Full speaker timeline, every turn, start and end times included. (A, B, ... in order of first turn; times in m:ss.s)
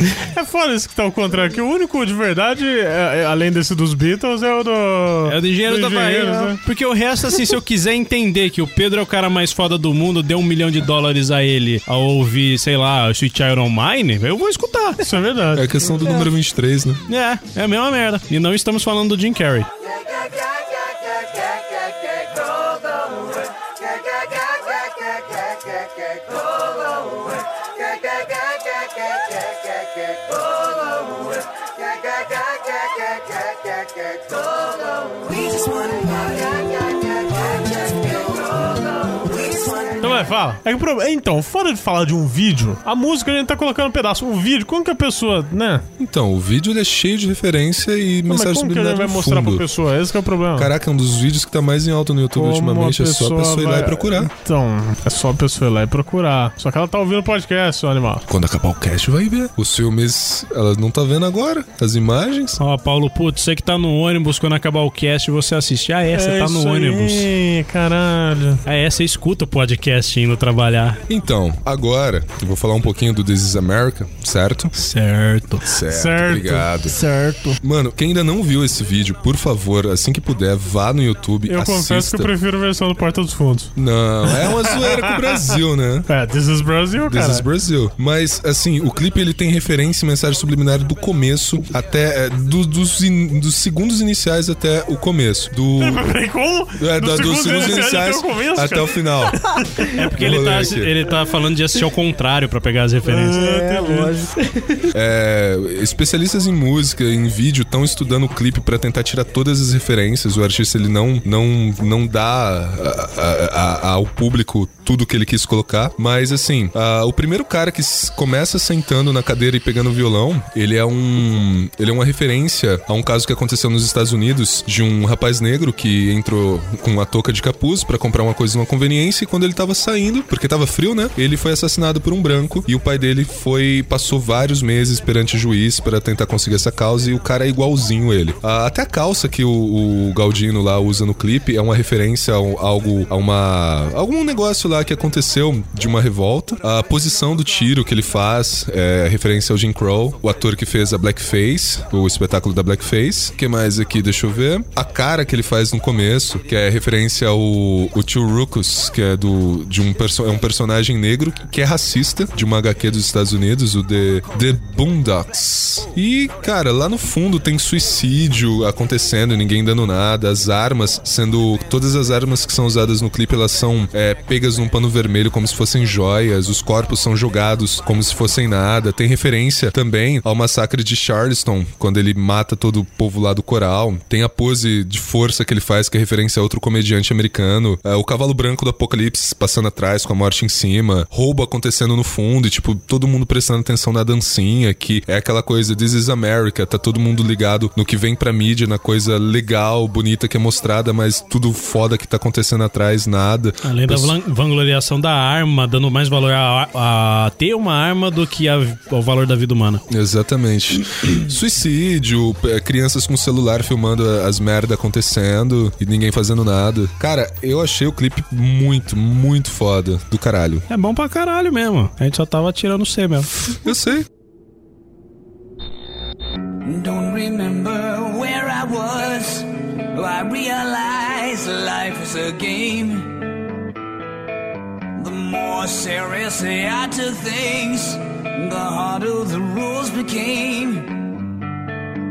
0:00.2-0:06.6 A
0:05.3-0:15.0 B
0:15.0-0:16.3 A
0:15.5-0:17.0 C
0:17.1-0:19.7 B
0:20.2-0:20.4 D
0:21.2-0:23.3 D
0:23.9-0:31.3 D
0:31.9-0:32.4 D
0:33.1-0:33.7 D
0:34.3-0:40.0 D
0:40.0-0:45.8 A
0:46.0-0:49.7 C
0:48.3-0:50.7 A
0:50.6-0:54.3 C
0:52.3-0:58.3 A
0:58.3-1:02.6 C
1:02.6-1:07.3 B
1:06.1-1:08.6 A
1:08.7-1:11.0 B
1:11.1-1:14.7 C
1:14.7-1:15.6 B
1:15.6-1:17.0 C
1:15.8-1:16.7 A
1:16.8-1:17.6 E
1:17.6-1:22.3 C
1:21.5-1:23.7 A
1:23.8-1:26.1 C
1:24.2-1:27.5 A
1:27.1-1:36.0 C
1:35.8-1:39.9 A
1:36.8-1:39.4 C
1:40.0-1:43.4 B
1:40.1-1:40.9 C
1:43.1-1:44.9 E
1:43.3-1:44.1 A
1:44.9-3:24.2 C
3:23.6-3:29.8 B
3:29.9-3:40.7 C
3:40.7-3:43.3 B
3:43.5-3:44.0 C
3:46.6-3:53.4 D
3:55.0-4:01.1 D